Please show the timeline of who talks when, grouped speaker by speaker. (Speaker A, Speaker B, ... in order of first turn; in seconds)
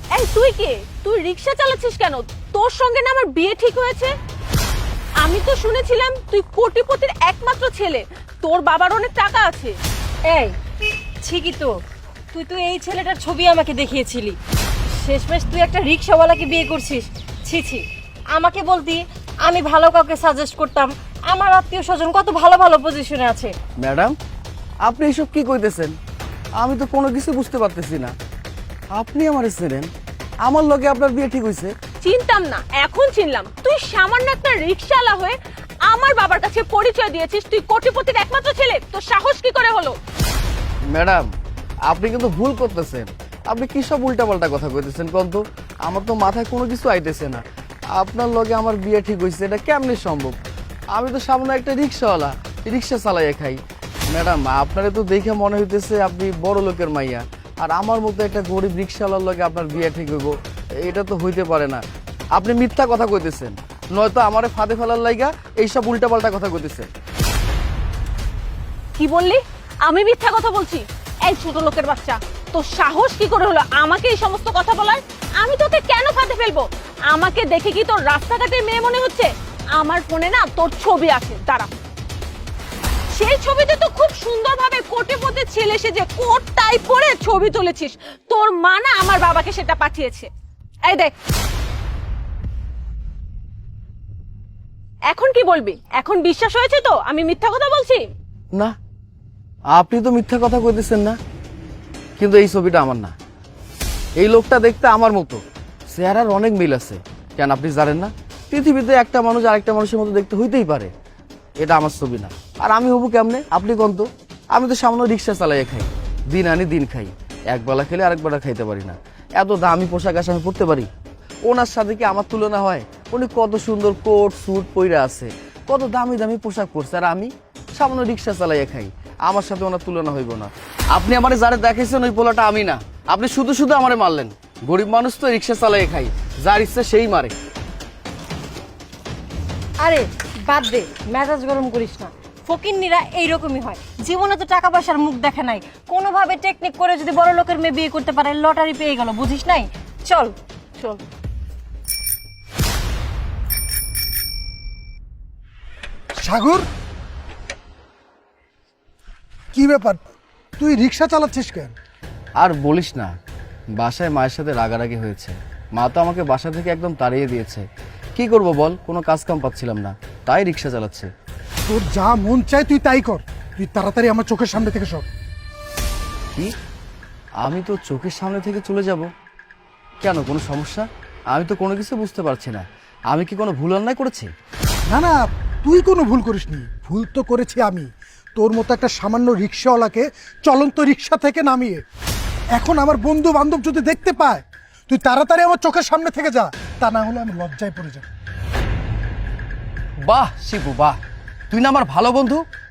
Speaker A: 0.1-4.1, 5.2-9.8, 32.0-40.0, 69.0-81.7, 83.1-90.3, 90.8-91.1, 95.1-98.0
Speaker B: 10.3-10.6, 11.2-11.8, 12.3-14.4, 14.9-23.6, 139.8-150.9
Speaker C: 23.8-24.1, 24.8-26.0, 26.6-28.1, 28.9-29.9, 30.4-31.7, 40.9-41.3, 41.9-47.4, 47.9-50.4, 50.9-53.6, 54.1-61.8, 62.4-66.9, 99.7-101.2, 102.2-103.1, 104.2-110.9, 111.6-120.9, 121.5-137.3, 162.4-163.1, 163.8-167.6, 168.2-171.1, 177.4-179.1, 180.0-184.3, 200.0-201.0, 201.5-202.4
Speaker D: 156.2-156.7, 159.5-160.0, 160.6-161.8, 171.7-175.1, 184.9-191.8, 192.5-198.0